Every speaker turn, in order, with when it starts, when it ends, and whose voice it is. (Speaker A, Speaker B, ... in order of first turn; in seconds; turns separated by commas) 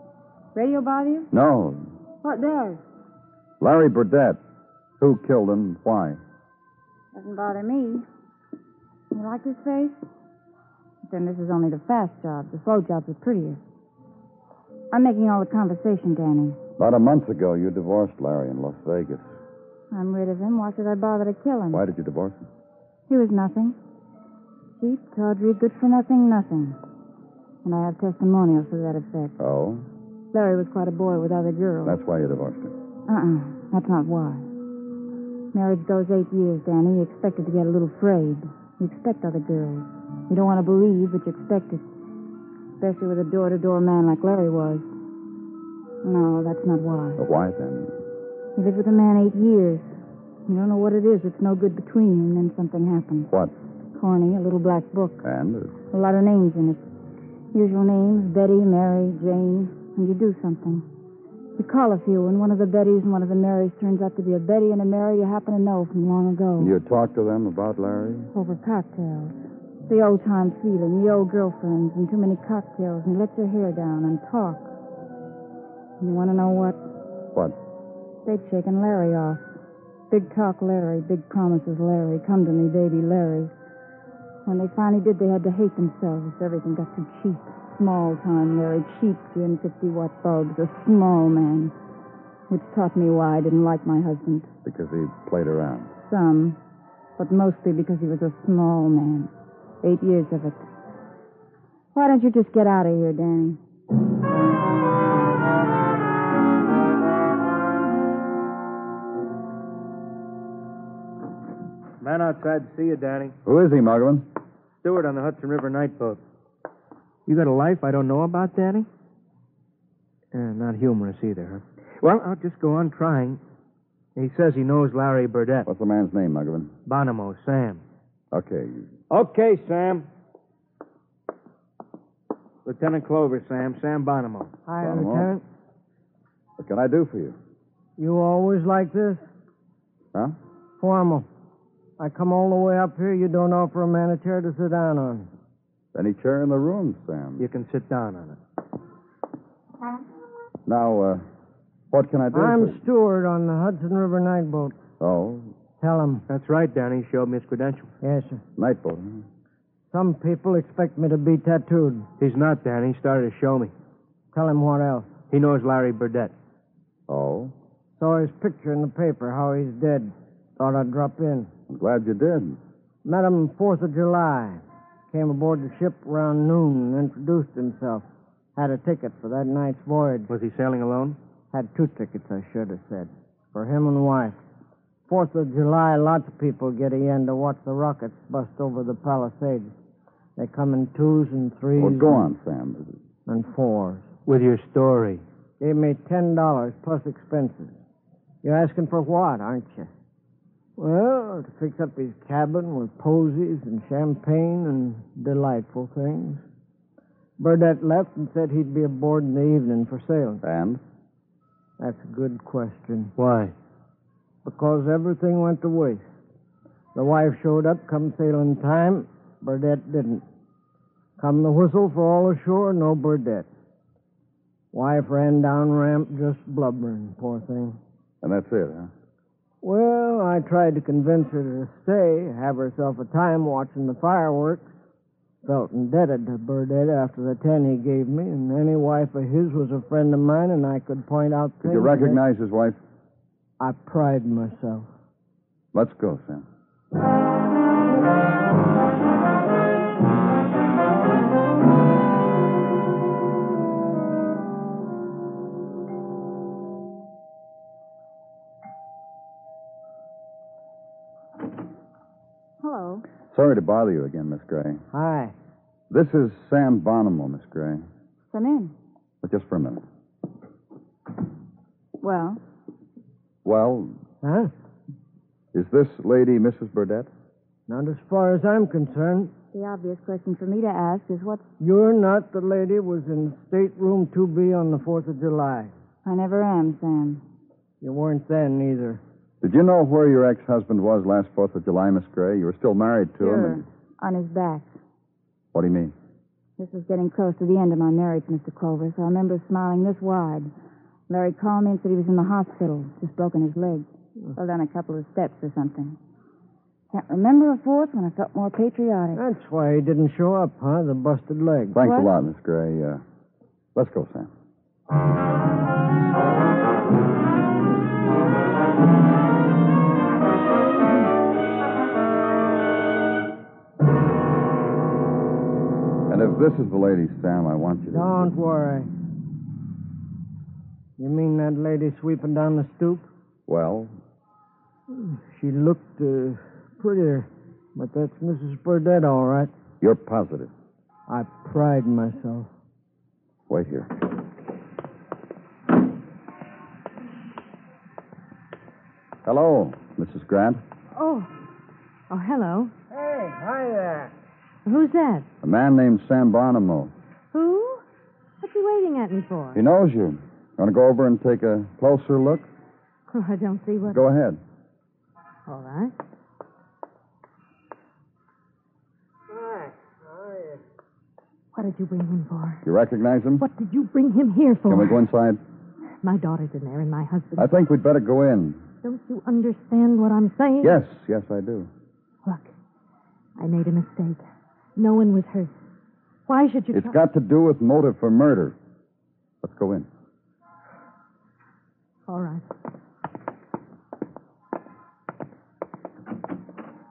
Speaker A: 0.5-1.3, Speaker B: 1.3-1.8, Speaker A: 2.2-2.8, Speaker B: 3.6-4.4, Speaker B: 5.0-6.2, Speaker A: 7.1-8.0, Speaker A: 9.1-10.0, Speaker A: 11.1-13.6, Speaker A: 14.9-16.6, Speaker B: 16.8-19.3, Speaker A: 19.9-21.8, Speaker B: 21.7-22.5, Speaker A: 23.1-23.8, Speaker A: 24.8-26.8, Speaker A: 27.6-29.4, Speaker B: 29.4-29.9, Speaker A: 30.3-32.0, Speaker B: 31.8-32.7, Speaker A: 33.1-34.5, Speaker A: 35.5-41.8, Speaker A: 42.8-44.9, Speaker A: 46.0-47.2, Speaker B: 47.2-47.9, Speaker A: 48.6-49.9, Speaker A: 50.5-53.3, Speaker B: 53.3-53.5, Speaker A: 53.9-55.2, Speaker B: 55.2-55.7, Speaker A: 55.9-56.9, Speaker A: 57.5-60.9, Speaker A: 61.6-66.7, Speaker B: 66.6-68.3, Speaker A: 68.3-69.3, Speaker A: 69.9-74.7, Speaker A: 76.0-76.8, Speaker A: 78.2-79.5, Speaker A: 80.1-83.5, Speaker A: 84.4-91.7, Speaker A: 92.5-94.5, Speaker B: 94.6-95.9, Speaker A: 96.1-96.6, Speaker A: 97.2-99.3, Speaker A: 99.8-100.7, Speaker A: 101.9-103.6, Speaker C: 112.0-113.3, Speaker B: 113.4-114.3, Speaker C: 114.8-116.2, Speaker C: 117.3-118.9, Speaker C: 120.3-123.4, Speaker C: 124.2-125.7, Speaker B: 125.7-126.7, Speaker C: 126.9-127.8, Speaker B: 128.3-128.9, Speaker C: 129.1-130.1, Speaker C: 132.6-134.5, Speaker D: 134.7-135.4, Speaker B: 134.8-135.3, Speaker B: 136.6-137.4, Speaker D: 138.0-139.2, Speaker D: 140.8-141.3, Speaker D: 142.0-145.3, Speaker B: 145.9-147.4, Speaker C: 147.4-148.4, Speaker B: 150.7-151.2, Speaker B: 151.9-152.8, Speaker D: 152.3-154.7, Speaker B: 155.0-155.5, Speaker D: 155.8-156.2, Speaker C: 156.3-157.9, Speaker D: 158.0-158.4, Speaker B: 158.6-159.2, Speaker D: 159.9-162.1, Speaker C: 162.2-163.7, Speaker D: 164.3-165.1, Speaker C: 165.3-166.3, Speaker B: 167.1-167.5, Speaker D: 168.0-171.5, Speaker B: 171.7-172.6, Speaker D: 173.1-178.0, Speaker D: 178.6-180.3, Speaker C: 180.3-181.2, Speaker D: 181.5-184.4, Speaker D: 185.1-189.7, Speaker D: 190.4-192.3, Speaker B: 191.8-192.9, Speaker D: 193.3-194.1, Speaker C: 194.3-195.2, Speaker D: 195.6-197.8, Speaker D: 198.4-199.9, Speaker D: 200.8-206.4, Speaker D: 207.4-210.4, Speaker B: 210.4-210.8, Speaker D: 211.8-213.1, Speaker C: 213.2-213.5, Speaker D: 214.4-216.0, Speaker D: 216.9-220.2, Speaker D: 221.2-223.5, Speaker D: 224.7-227.8, Speaker B: 228.2-228.9, Speaker D: 229.6-234.7, Speaker D: 235.4-242.2, Speaker B: 241.6-242.8, Speaker D: 243.6-244.9, Speaker B: 245.7-246.4, Speaker A: 262.6-263.1, Speaker B: 263.3-264.8, Speaker D: 264.9-265.4, Speaker B: 265.9-267.8, Speaker A: 268.3-268.7, Speaker B: 269.2-269.8, Speaker A: 272.0-272.4, Speaker B: 273.4-273.9, Speaker D: 274.2-274.5, Speaker B: 275.5-277.1, Speaker D: 277.7-279.3, Speaker A: 279.5-281.5, Speaker D: 281.6-285.7, Speaker A: 286.0-287.2, Speaker D: 287.8-289.0, Speaker B: 289.4-293.6, Speaker A: 293.2-294.7, Speaker B: 295.5-295.9, Speaker A: 296.6-300.5, Speaker A: 301.1-306.0, Speaker A: 306.9-309.2, Speaker D: 309.1-311.8, Speaker B: 311.7-313.0, Speaker A: 311.8-312.1, Speaker B: 313.7-314.3, Speaker B: 326.1-328.3, Speaker D: 327.9-328.9, Speaker D: 331.0-333.1, Speaker B: 333.5-333.9, Speaker D: 334.9-339.5, Speaker B: 339.8-340.5, Speaker D: 341.1-342.5, Speaker B: 343.5-343.9, Speaker B: 349.2-350.6, Speaker E: 350.9-351.3, Speaker E: 352.1-352.7, Speaker D: 352.9-354.1, Speaker E: 354.6-355.3, Speaker B: 355.4-356.9, Speaker E: 357.3-357.8, Speaker E: 358.4-359.6, Speaker B: 359.5-362.5, Speaker E: 363.1-364.0, Speaker B: 363.9-364.4, Speaker E: 365.5-365.9, Speaker D: 369.4-370.6, Speaker E: 371.5-372.6, Speaker B: 372.6-373.4, Speaker E: 373.4-375.0, Speaker B: 374.7-375.4, Speaker E: 376.0-377.5, Speaker B: 377.4-378.6, Speaker E: 378.8-380.8, Speaker B: 380.6-381.7, Speaker E: 382.2-382.5, Speaker E: 383.4-384.2, Speaker E: 384.8-385.5, Speaker E: 386.3-386.9, Speaker B: 386.7-388.6, Speaker B: 389.4-389.9, Speaker E: 392.1-392.4